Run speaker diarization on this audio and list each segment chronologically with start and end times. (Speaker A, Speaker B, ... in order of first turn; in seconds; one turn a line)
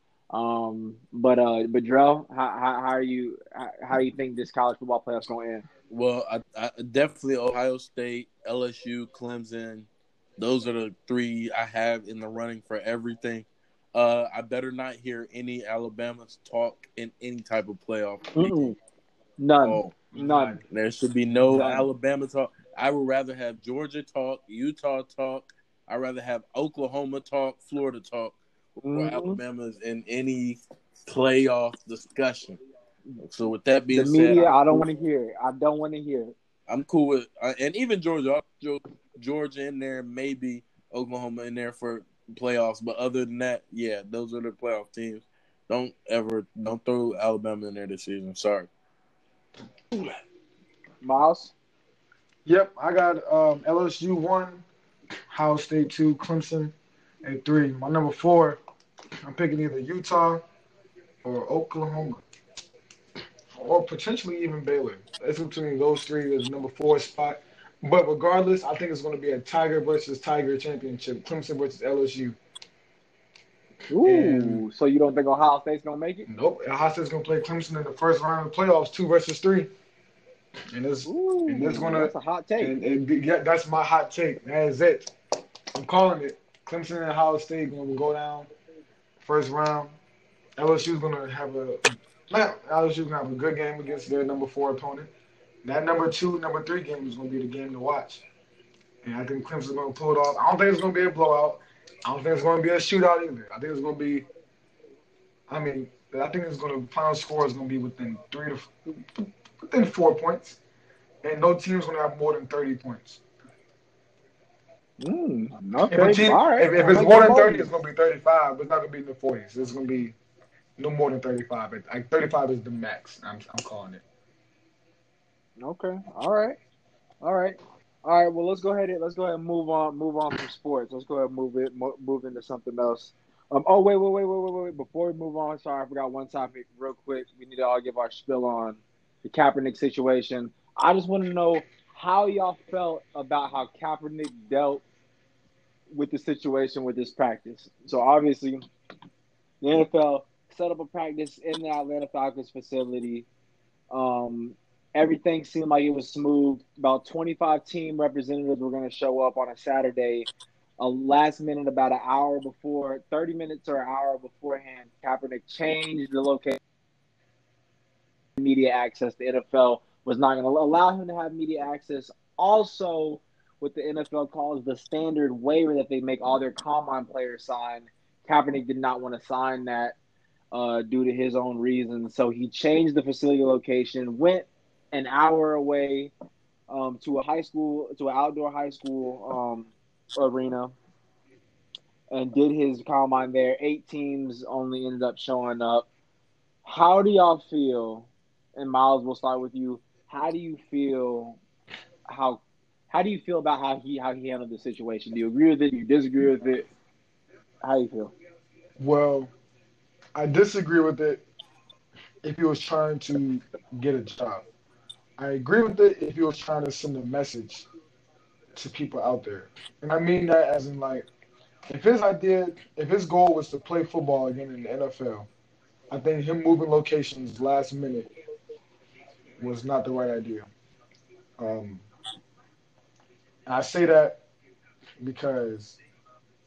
Speaker A: 0.3-5.7
Speaker B: 5.9-18.8
Speaker A: 18.3-18.7
Speaker A: 19.4-20.6
Speaker B: 19.6-20.0
Speaker C: 20.1-20.6
Speaker B: 20.7-28.4
Speaker C: 21.3-21.7
Speaker A: 21.5-21.9
Speaker A: 28.8-29.4
Speaker B: 28.9-32.6
Speaker B: 33.2-34.8
Speaker A: 33.9-36.3
Speaker B: 36.7-48.7
Speaker A: 51.0-51.5
Speaker C: 52.5-54.6
Speaker C: 55.3-56.7
Speaker C: 57.2-58.6
Speaker C: 59.2-60.4
Speaker C: 61.2-62.2
Speaker C: 63.5-72.4
Speaker A: 73.9-76.3
Speaker C: 74.0-74.6
Speaker C: 76.3-79.7
Speaker C: 80.7-85.1
Speaker A: 81.0-82.7
Speaker C: 85.7-88.5
Speaker C: 89.2-89.9
Speaker C: 90.6-95.1
Speaker C: 95.6-98.2
Speaker C: 99.0-104.3
Speaker C: 105.5-110.6
Speaker C: 111.2-113.2
Speaker A: 115.0-117.7
Speaker C: 115.9-120.2
Speaker C: 120.8-124.0
Speaker A: 125.6-126.6
Speaker A: 127.2-144.8
Speaker A: 145.9-148.7
Speaker A: 149.6-153.3
Speaker A: 153.9-166.6
Speaker A: 168.4-179.9
Speaker A: 180.5-186.1
Speaker A: 186.7-190.8
Speaker A: 192.1-195.9
Speaker A: 196.6-201.4
Speaker A: 202.1-206.7
Speaker A: 207.6-208.1
Speaker C: 208.8-209.3
Speaker C: 210.1-211.2
Speaker C: 212.2-214.4
Speaker C: 215.2-217.7
Speaker C: 218.5-221.1
Speaker C: 221.7-225.3
Speaker C: 225.9-228.1
Speaker C: 229.4-230.5
Speaker C: 231.4-231.8
Speaker C: 233.4-234.2
Speaker C: 235.0-235.8